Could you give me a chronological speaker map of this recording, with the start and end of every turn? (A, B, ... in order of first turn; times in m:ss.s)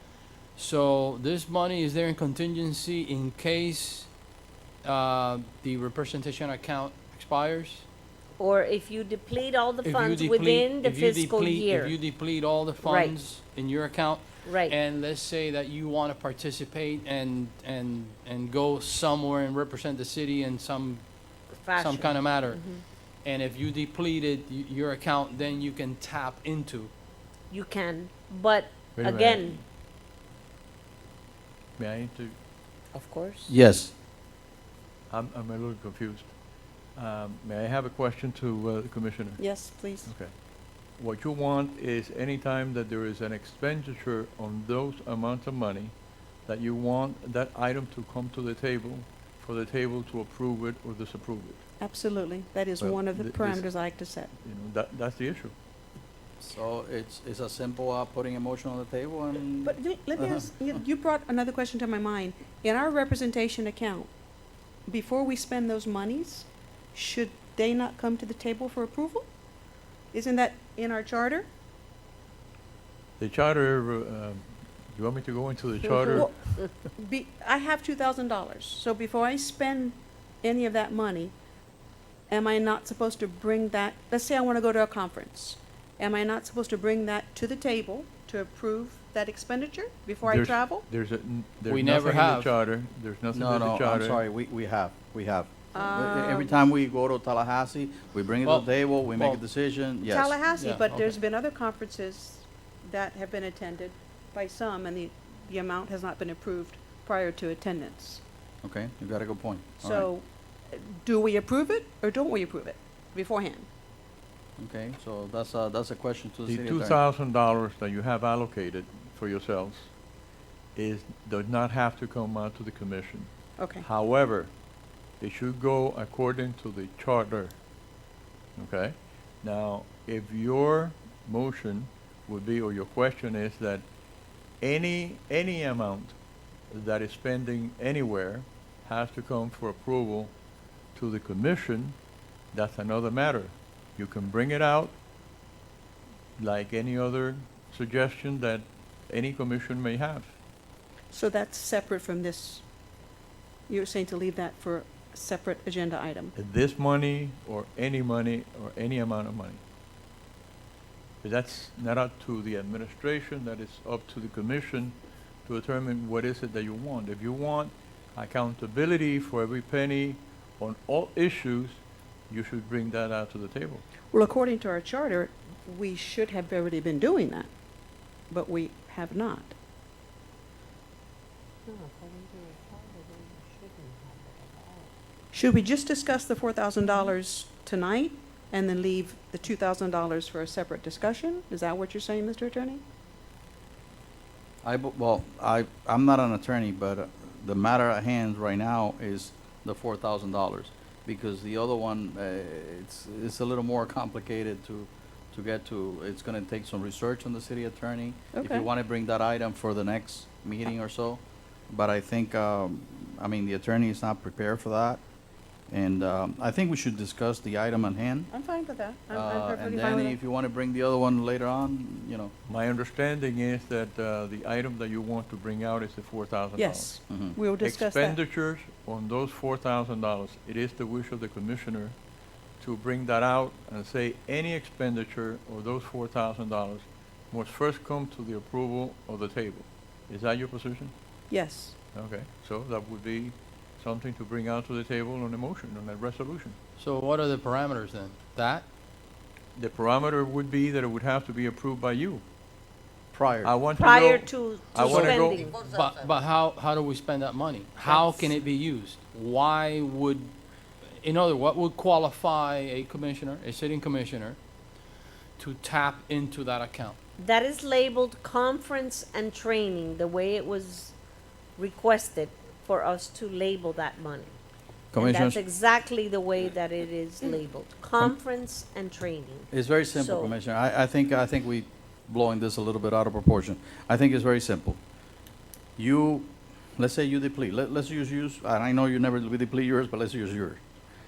0:00.6-0:04.1 A
0:04.8-0:07.8 A
0:08.4-0:12.0 B
0:09.8-0:21.2 A
0:12.8-0:13.2 B
0:14.4-0:14.8 B
0:21.6-0:22.8 B
0:21.7-0:26.9 A
0:27.5-0:29.6 B
0:29.0-0:29.6 C
0:31.8-0:32.3 C
0:32.9-0:33.5 B
0:33.5-0:33.9 D
0:35.1-0:36.3 C
0:37.0-0:39.4 C
0:39.4-0:40.1 E
0:40.0-0:40.3 C
0:41.0-0:45.9 C
0:46.4-0:51.6 C
0:51.8-0:54.3 E
0:53.1-0:53.6 C
0:54.4-0:55.5 C
0:56.4-1:00.4 D
0:59.6-1:04.1 E
1:04.9-1:09.3 E
1:10.1-1:11.5 E
1:13.2-1:16.5 C
1:15.8-1:16.6 B
1:16.1-1:21.3 E
1:22.3-1:30.9 E
1:30.2-1:34.2 C
1:31.7-1:32.5 A
1:33.3-1:40.4 D
1:35.8-1:36.6 E
1:38.4-1:39.4 A
1:40.1-1:48.2 E
1:40.5-1:41.2 A
1:48.6-1:50.1 D
1:49.8-1:53.7 E
1:54.6-1:57.0 D
1:56.5-1:59.9 C
2:00.8-2:04.5 C
2:03.6-2:03.8 E
2:05.2-2:07.6 C
2:08.6-2:13.8 C
2:14.6-2:16.2 C
2:16.7-2:20.3 C
2:20.9-2:22.0 C
2:22.5-2:24.9 C
2:26.4-2:30.4 C
2:31.1-2:32.6 E
2:33.7-2:36.3 E
2:36.3-2:39.6 C
2:41.2-2:53.8 C
2:54.1-2:57.5 E
2:58.3-2:59.5 E
3:01.7-3:04.9 B
3:05.3-3:12.8 E
3:14.6-3:35.0 D
3:28.3-3:28.7 E
3:35.7-3:38.3 D
3:38.3-3:40.2 E
3:39.1-3:42.3 D
3:42.5-3:46.9 C
3:46.6-3:48.2 E
3:47.1-3:47.4 D
3:47.6-3:51.9 C
3:52.6-4:00.9 C
4:01.3-4:01.8 E
4:01.9-4:06.6 C
4:06.8-4:08.7 A
4:09.6-4:12.2 C
4:13.1-4:13.5 D
4:13.4-4:15.5 C
4:13.7-4:15.6 B
4:14.8-4:20.4 A
4:17.8-4:18.4 B
4:21.0-4:24.4 A
4:25.4-4:27.0 A
4:27.2-4:30.9 B
4:31.6-4:34.4 B
4:34.9-4:35.4 D
4:35.0-4:40.3 B
4:39.5-4:44.8 D
4:45.8-4:50.6 D